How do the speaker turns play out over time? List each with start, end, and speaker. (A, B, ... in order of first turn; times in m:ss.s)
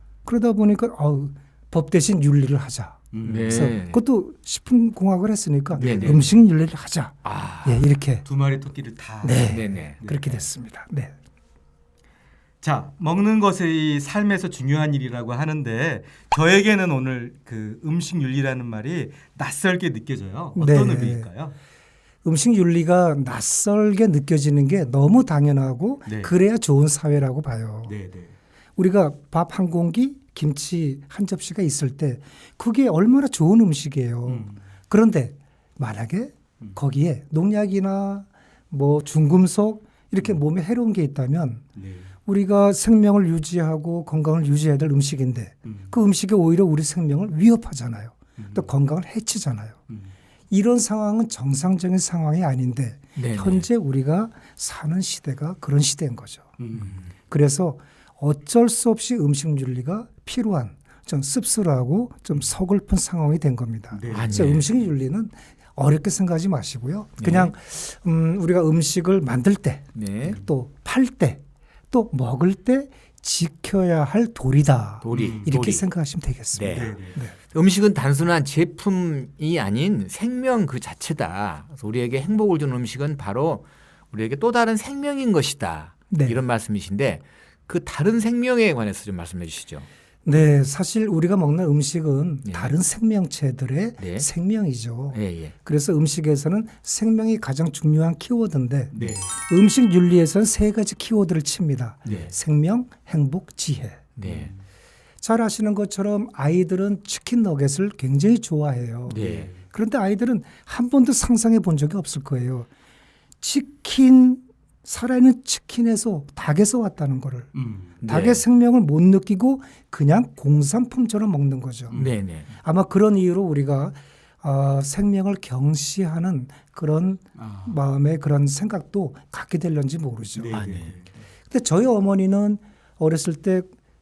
0:00.2-0:08.2 A
0:03.1-0:03.7 B
0:03.2-0:04.0 C
0:05.8-0:06.3 C
0:05.8-0:06.3 B
0:07.2-0:07.8 C
0:08.2-0:10.3 B
0:09.2-0:11.1 A
0:09.5-0:10.0 C
0:12.6-0:21.5 B
0:20.6-0:21.3 A
0:22.2-0:27.9 A
0:26.0-0:26.3 B
0:27.9-0:28.3 B
0:28.8-0:41.6 A
0:34.2-0:34.6 B
0:41.8-0:42.1 B
0:42.2-0:49.8 A
0:45.6-0:46.0 B
0:48.4-0:48.7 B
0:50.5-0:56.5 A
0:53.2-0:53.7 C
0:56.6-0:57.0 B
0:56.8-0:57.0 C
0:57.3-1:17.3 A
1:03.9-1:04.3 B
1:04.1-1:04.7 C
1:07.2-1:07.5 C
1:09.9-1:10.4 C
1:15.0-1:15.8 C
1:15.1-1:15.5 B
1:16.5-1:17.0 C
1:16.7-1:17.2 B
1:17.5-1:29.9 C
1:26.1-1:26.4 A
1:30.2-1:44.0 A
1:32.4-1:32.7 C
1:34.0-1:34.3 C
1:35.1-1:35.5 C
1:38.9-1:39.3 B
1:44.2-1:44.5 C
1:44.2-1:44.6 B
1:45.2-1:52.7 A
1:49.1-1:49.5 C
1:49.1-1:49.6 B
1:53.4-1:57.5 A
1:57.5-1:57.9 B
1:58.0-1:58.4 C
1:58.0-2:02.0 A
2:02.0-2:02.5 C
2:02.6-2:10.6 A
2:07.4-2:07.8 B
2:10.4-2:11.1 B
2:10.5-2:10.9 C
2:11.5-2:13.7 A